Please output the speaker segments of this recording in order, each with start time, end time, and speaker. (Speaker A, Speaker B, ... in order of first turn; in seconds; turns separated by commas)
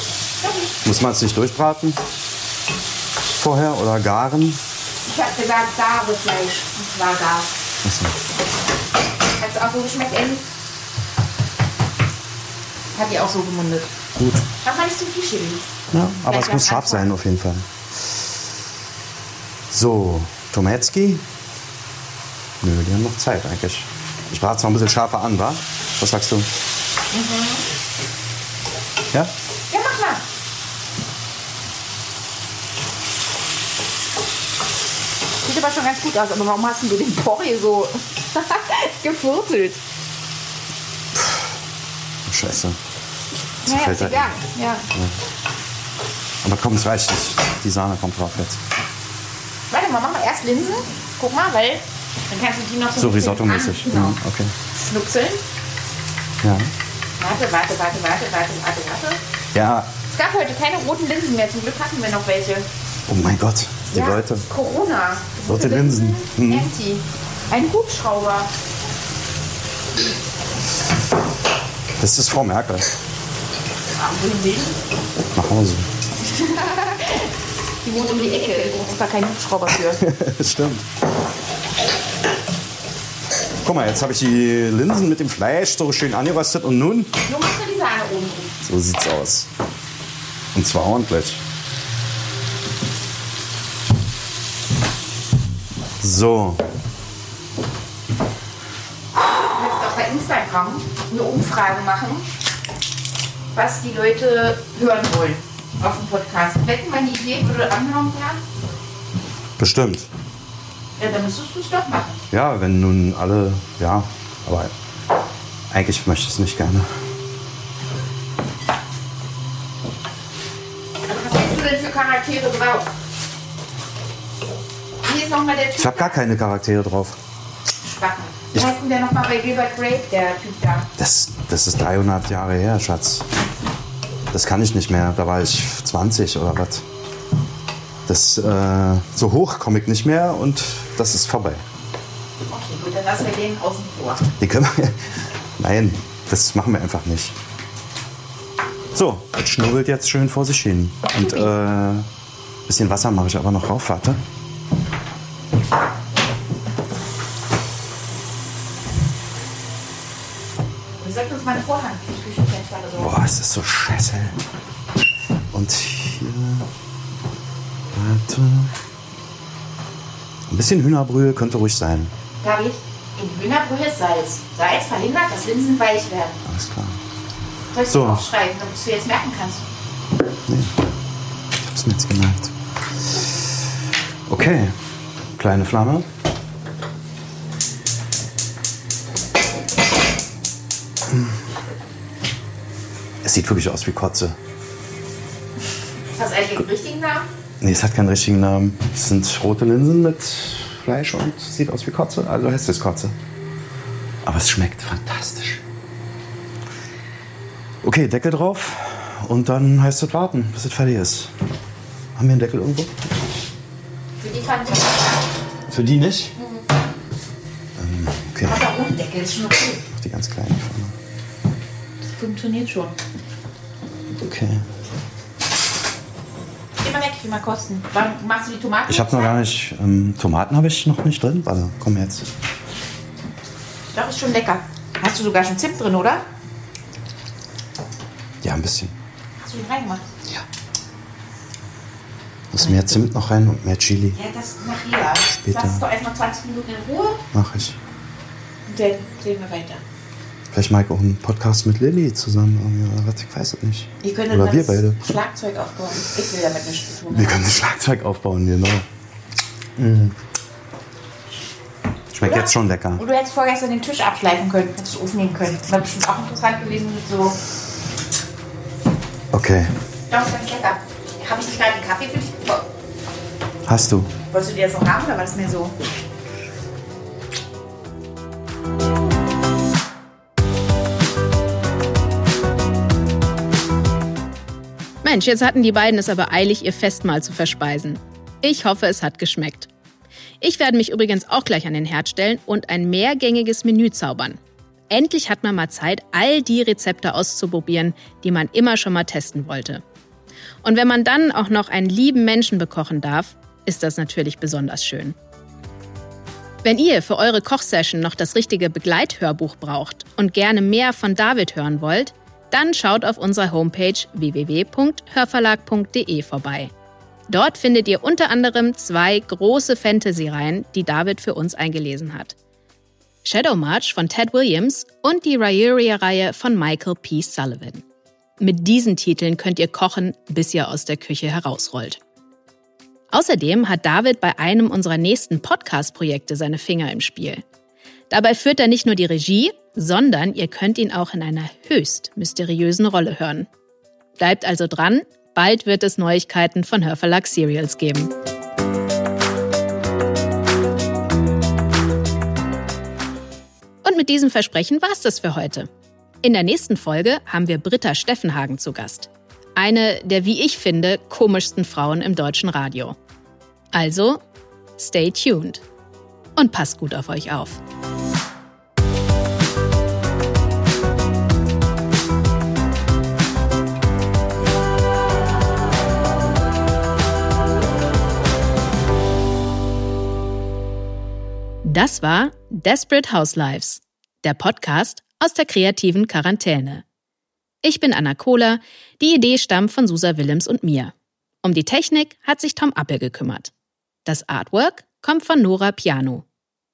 Speaker A: 0.4-0.8, Speaker B: 0.8-2.0, Speaker B: 3.4-4.6, Speaker A: 5.1-7.5, Speaker B: 7.8-8.2, Speaker A: 9.4-10.4, Speaker A: 12.9-13.9, Speaker B: 14.2-14.4, Speaker A: 14.6-17.1, Speaker B: 15.9-18.1, Speaker B: 19.7-21.2, Speaker B: 22.6-26.5, Speaker A: 27.1-27.6, Speaker A: 29.7-30.2, Speaker A: 35.4-39.8, Speaker B: 41.1-41.5, Speaker B: 42.3-42.8, Speaker B: 43.6-44.3, Speaker A: 43.6-44.9, Speaker B: 44.9-45.2, Speaker B: 46.4-48.6, Speaker A: 49.7-54.2, Speaker B: 53.0-54.5, Speaker A: 54.7-55.4, Speaker B: 56.4-56.7, Speaker A: 57.2-59.2, Speaker B: 59.5-59.9, Speaker A: 60.1-62.7, Speaker B: 63.1-64.4, Speaker A: 63.9-68.5, Speaker B: 65.5-66.7, Speaker B: 72.0-72.9, Speaker A: 73.9-74.8, Speaker B: 75.3-75.9, Speaker A: 76.2-77.3, Speaker A: 77.8-80.0, Speaker B: 79.9-80.9, Speaker B: 83.6-87.1, Speaker A: 87.3-88.6, Speaker B: 88.6-89.5, Speaker B: 90.5-91.4, Speaker B: 96.0-96.6, Speaker A: 99.3-102.2, Speaker A: 103.5-108.4, Speaker B: 109.6-110.1, Speaker A: 111.0-112.2, Speaker B: 112.3-114.7, Speaker B: 115.7-117.0, Speaker A: 121.1-122.9, Speaker A: 125.0-126.2, Speaker B: 125.8-127.2, Speaker A: 127.8-130.9, Speaker B: 131.0-133.3, Speaker B: 134.3-136.8, Speaker B: 138.1-141.6, Speaker A: 142.5-144.3, Speaker B: 144.4-147.4, Speaker B: 148.9-152.1, Speaker A: 151.2-151.5, Speaker B: 152.7-154.2, Speaker A: 161.0-163.2, Speaker B: 163.0-164.4, Speaker B: 165.5-166.7, Speaker B: 167.9-168.8, Speaker B: 170.5-172.1, Speaker A: 172.4-176.4, Speaker B: 176.5-177.0, Speaker A: 177.7-179.7, Speaker B: 177.9-178.2, Speaker B: 180.5-180.7, Speaker B: 181.6-182.6, Speaker B: 184.3-184.8, Speaker B: 185.4-186.1, Speaker B: 193.2-194.4, Speaker A: 196.1-197.3, Speaker B: 197.6-203.2, Speaker B: 204.2-205.6, Speaker B: 207.8-211.3, Speaker B: 212.2-213.1, Speaker A: 214.2-215.2, Speaker B: 215.7-216.3, Speaker A: 216.4-216.6, Speaker B: 217.8-218.6, Speaker A: 218.5-219.8, Speaker B: 219.9-221.0, Speaker A: 222.2-222.9, Speaker B: 224.1-224.7, Speaker A: 226.8-229.4, Speaker B: 228.9-232.3, Speaker A: 233.9-236.2, Speaker B: 238.4-238.9, Speaker A: 239.4-240.0, Speaker B: 242.5-244.2, Speaker A: 242.6-243.0, Speaker A: 244.2-247.2, Speaker B: 245.4-245.8, Speaker B: 247.3-247.8, Speaker A: 248.7-249.8, Speaker B: 250.5-255.0, Speaker A: 254.0-257.4, Speaker B: 257.1-258.9, Speaker B: 259.8-260.2, Speaker B: 262.1-263.0, Speaker A: 262.2-267.4, Speaker B: 269.3-269.8, Speaker A: 270.1-272.6, Speaker B: 273.7-274.1, Speaker A: 274.3-275.7, Speaker C: 285.0-289.7, Speaker C: 290.4-299.8, Speaker C: 300.6-305.2, Speaker C: 306.6-316.7, Speaker C: 317.3-322.4, Speaker C: 323.2-327.8, Speaker C: 328.4-332.0, Speaker C: 333.1-337.4, Speaker C: 338.1-343.5, Speaker C: 344.2-348.1, Speaker C: 353.8-355.7, Speaker C: 356.2-363.0, Speaker C: 363.7-364.2, Speaker C: 364.8-365.6, Speaker C: 366.4-367.6, Speaker C: 381.6-386.8, Speaker C: 387.6-393.5, Speaker C: 394.1-396.2